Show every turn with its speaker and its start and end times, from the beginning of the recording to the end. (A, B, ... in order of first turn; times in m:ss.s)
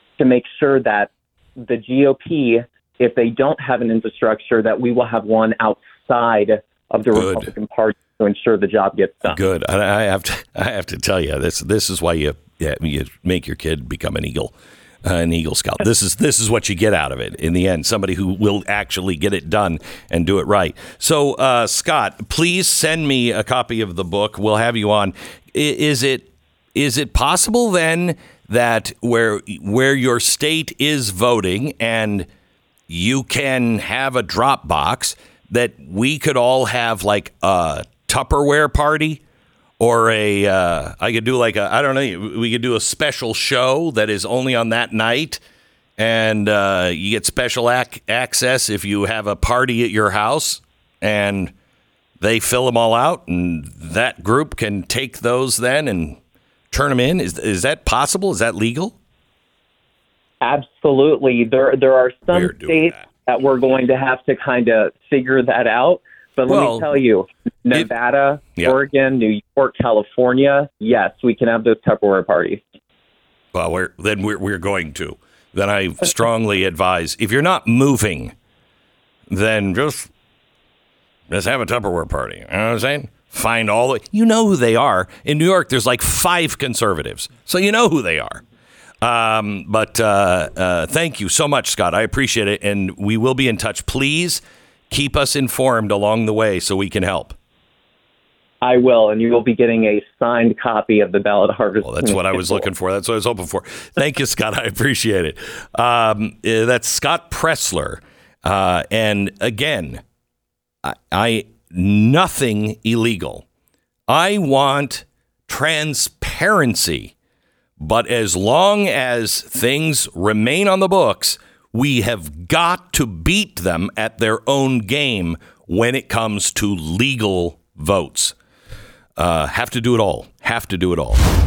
0:00.2-0:09.4 A
0:07.1-0:07.5 B
0:09.2-0:32.3 B
0:32.9-0:39.2 B
0:39.8-0:45.4 B
0:46.0-0:51.5 B
0:52.2-0:56.2 B
0:56.7-0:58.9 B
1:00.4-1:12.6 A
1:02.3-1:03.1 B
1:06.5-1:06.9 B
1:13.5-1:18.3 B
1:19.3-1:20.1 B
1:21.3-1:28.4 B
1:29.0-1:37.4 B
1:38.6-1:42.4 A
1:41.8-1:50.0 B
1:50.8-1:53.4 B
1:54.1-1:57.1 B
1:57.8-2:08.3 B
2:09.2-2:11.2 B